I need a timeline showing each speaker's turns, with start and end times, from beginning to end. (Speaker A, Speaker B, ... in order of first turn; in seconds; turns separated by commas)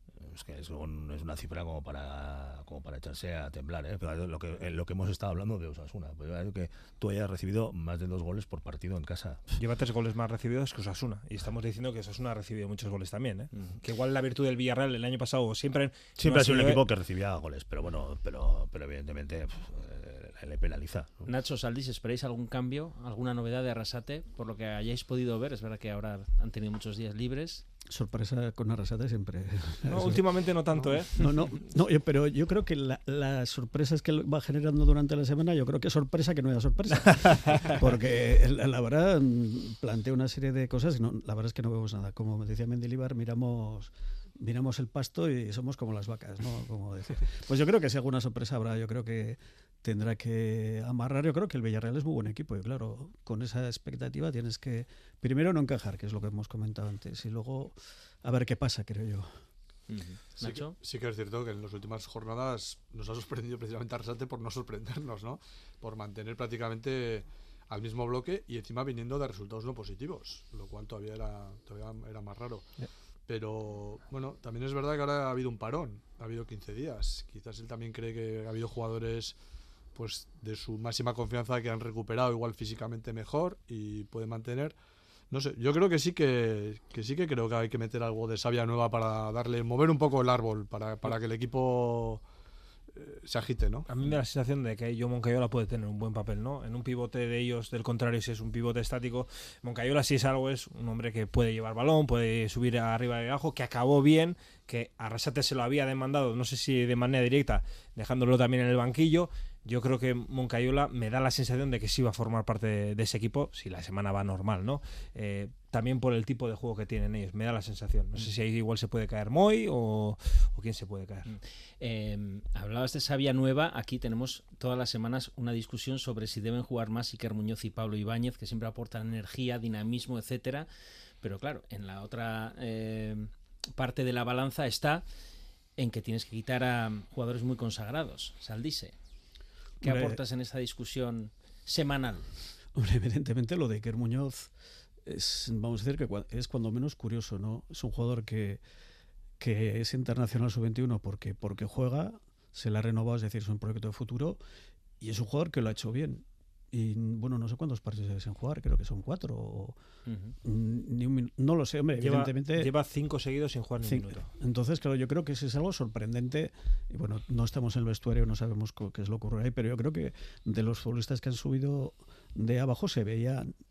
Speaker A: 0.2-9.5, Speaker B: 9.6-16.9, Speaker A: 16.2-21.3, Speaker C: 21.3-27.6, Speaker D: 27.9-30.2, Speaker B: 29.9-31.6, Speaker D: 31.2-59.3, Speaker C: 59.9-60.8, Speaker E: 60.4-72.7, Speaker E: 73.3-79.3, Speaker E: 79.9-84.8, Speaker E: 85.3-92.2, Speaker E: 92.9-93.9, Speaker B: 93.9-121.3, Speaker C: 121.3-130.7, Speaker C: 131.2-135.0, Speaker C: 135.8-138.9, Speaker D: 139.8-140.2, Speaker C: 139.8-142.3, Speaker D: 142.8-144.5, Speaker D: 145.1-148.6, Speaker D: 149.4-154.4, Speaker D: 155.0-159.8, Speaker C: 160.1-160.3, Speaker D: 160.4-162.7, Speaker B: 162.0-164.3, Speaker D: 163.8-173.5